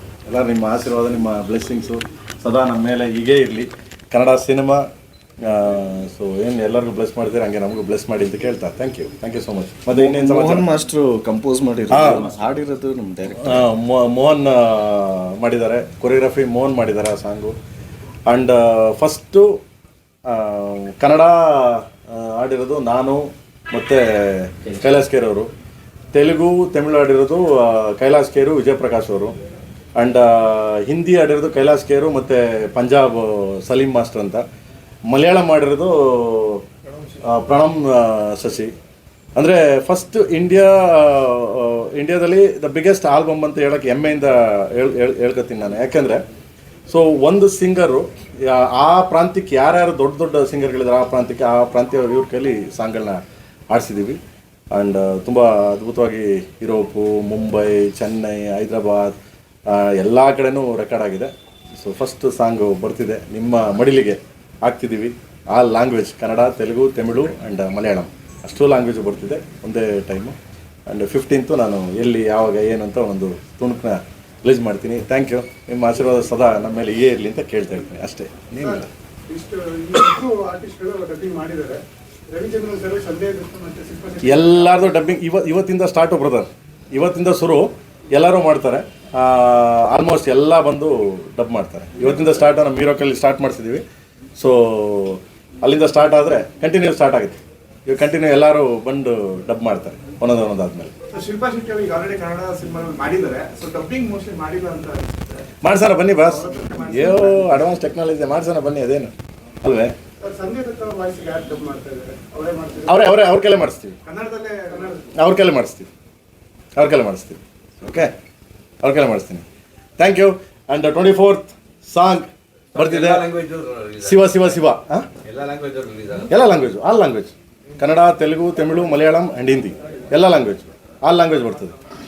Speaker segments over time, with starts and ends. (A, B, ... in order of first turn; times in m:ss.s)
0:00.2-0:04.8 A
0:05.4-0:10.7 A
0:09.9-0:13.6 B
0:11.9-0:12.2 A
0:13.4-0:17.6 A
0:18.3-0:19.6 A
0:20.2-0:25.5 A
0:26.1-0:29.4 A
0:30.0-0:34.4 A
0:35.1-0:36.6 A
0:37.2-0:38.7 A
0:39.4-0:46.2 A
0:46.9-0:54.2 A
0:54.7-0:59.1 A
0:59.7-1:10.4 A
1:10.9-1:18.9 A
1:18.6-1:24.9 C
1:24.2-1:33.8 A
1:34.4-1:40.9 A
1:41.1-1:45.4 C
1:45.6-1:49.9 A
1:46.2-1:47.6 C
1:50.2-1:53.0 C
1:52.9-1:54.0 A
1:54.0-1:55.1 C
1:55.1-1:55.9 A
1:56.8-1:58.1 A
1:58.8-1:59.4 A
2:00.0-2:03.3 A
2:02.7-2:04.6 D
2:04.0-2:05.1 A
2:05.2-2:06.3 D
2:06.3-2:11.7 A